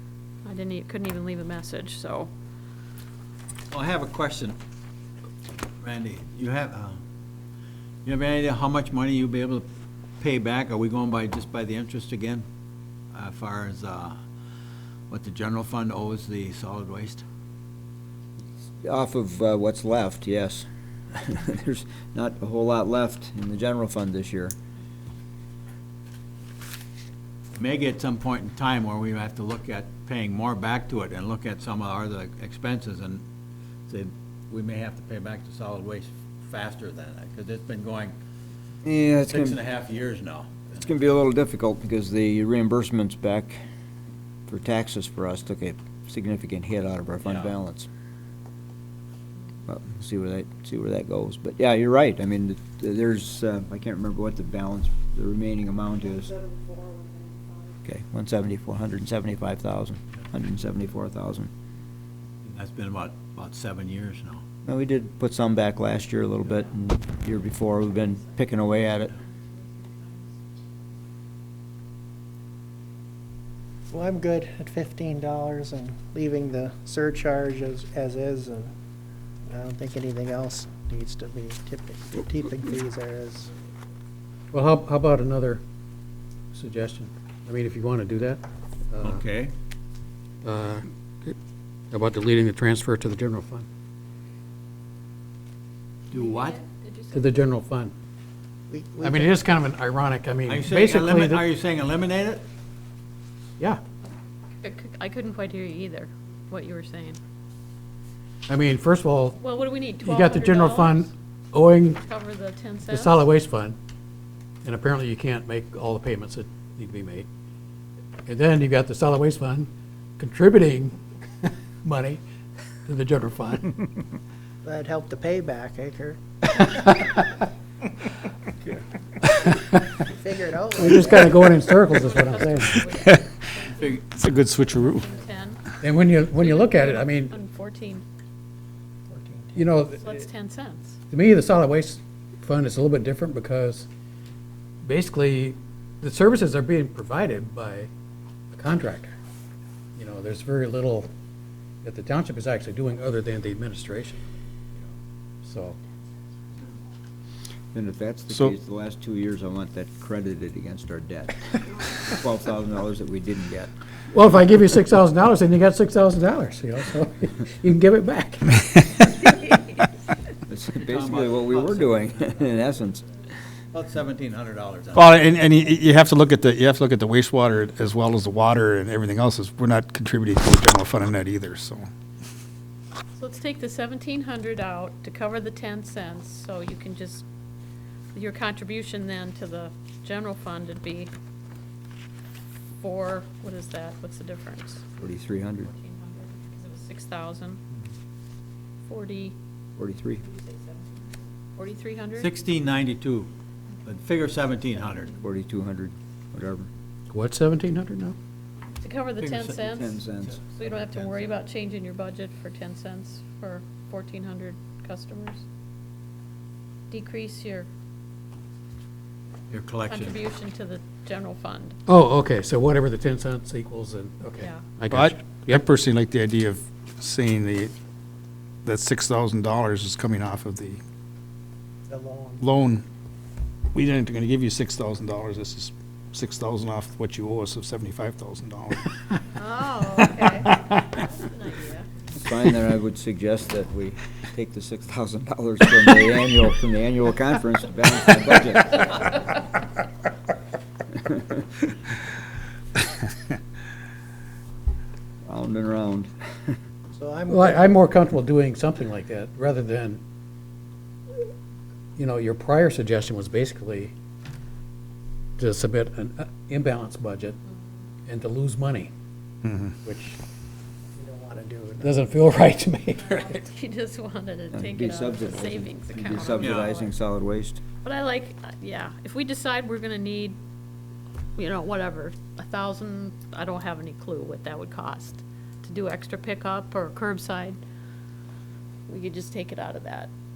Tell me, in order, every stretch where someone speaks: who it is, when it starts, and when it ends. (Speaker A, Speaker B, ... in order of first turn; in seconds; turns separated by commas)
Speaker A: 0.5-2.3, Speaker B: 3.7-4.6, Speaker B: 5.8-7.0, Speaker B: 8.1-9.7, Speaker B: 10.2-12.4, Speaker B: 13.1-14.2, Speaker B: 15.1-17.2, Speaker C: 18.6-24.6, Speaker B: 27.6-33.2, Speaker B: 33.9-38.1, Speaker C: 38.8-39.6, Speaker B: 39.3-40.9, Speaker C: 40.8-43.6, Speaker C: 44.5-47.9, Speaker B: 47.2-47.5, Speaker C: 49.7-56.4, Speaker D: 56.4-57.7, Speaker C: 57.9-61.5, Speaker B: 62.4-64.4, Speaker C: 64.7-69.2, Speaker D: 73.9-78.7, Speaker D: 79.5-83.5, Speaker E: 84.5-85.6, Speaker E: 86.5-89.2, Speaker B: 89.0-89.5, Speaker E: 90.4-91.3, Speaker E: 91.9-93.7, Speaker B: 96.1-96.6, Speaker E: 97.1-97.9, Speaker D: 98.7-99.3, Speaker E: 99.0-101.4, Speaker B: 100.5-102.4, Speaker A: 104.6-107.2, Speaker E: 108.5-109.4, Speaker A: 109.4-111.1, Speaker E: 110.0-112.1, Speaker A: 112.0-113.2, Speaker E: 112.8-113.8, Speaker E: 114.7-117.3, Speaker E: 118.3-121.0, Speaker E: 121.8-122.2, Speaker E: 122.9-123.8, Speaker D: 124.6-127.0, Speaker E: 129.5-129.8, Speaker D: 130.0-131.7, Speaker E: 130.8-132.8, Speaker A: 131.8-135.6, Speaker F: 132.9-133.3, Speaker B: 133.7-134.0, Speaker F: 134.1-135.1, Speaker E: 135.8-137.4, Speaker A: 136.3-138.0, Speaker D: 139.1-139.7, Speaker E: 139.6-140.1, Speaker A: 140.0-141.0, Speaker E: 141.1-143.9, Speaker E: 144.8-147.9, Speaker E: 148.5-149.1, Speaker E: 150.0-151.1, Speaker E: 151.8-154.2, Speaker E: 155.4-155.8, Speaker C: 157.7-163.7, Speaker E: 164.1-168.7, Speaker C: 170.5-173.1, Speaker B: 170.8-172.4, Speaker B: 173.7-175.2, Speaker F: 174.9-181.9, Speaker A: 183.2-187.3, Speaker A: 188.1-191.1, Speaker A: 192.8-194.9, Speaker C: 195.0-195.7, Speaker A: 195.7-197.6, Speaker A: 198.9-199.4, Speaker C: 199.8-200.3, Speaker A: 201.6-202.3, Speaker B: 202.2-203.3, Speaker B: 203.8-205.2, Speaker C: 205.2-206.7, Speaker E: 207.1-208.2, Speaker A: 208.8-210.0, Speaker B: 209.2-209.6, Speaker C: 209.6-210.4, Speaker B: 210.2-211.3, Speaker A: 210.5-215.4, Speaker A: 216.9-217.7, Speaker B: 219.5-220.2, Speaker A: 219.9-221.8, Speaker E: 221.9-225.6, Speaker F: 224.9-227.7, Speaker F: 228.7-230.8, Speaker D: 231.9-232.4, Speaker F: 232.4-232.8, Speaker F: 233.7-238.9, Speaker A: 239.4-241.9, Speaker C: 242.2-249.3, Speaker C: 251.1-251.3, Speaker C: 255.2-256.6, Speaker D: 256.9-258.0, Speaker E: 257.3-260.0, Speaker E: 262.0-263.9, Speaker E: 265.4-267.4, Speaker E: 268.1-268.9, Speaker F: 269.4-269.8, Speaker E: 269.8-270.2, Speaker D: 270.9-271.9, Speaker E: 271.8-273.4, Speaker A: 273.4-276.9, Speaker C: 274.5-277.6, Speaker B: 276.4-276.8, Speaker A: 277.8-280.4, Speaker A: 281.4-287.6, Speaker A: 288.9-290.1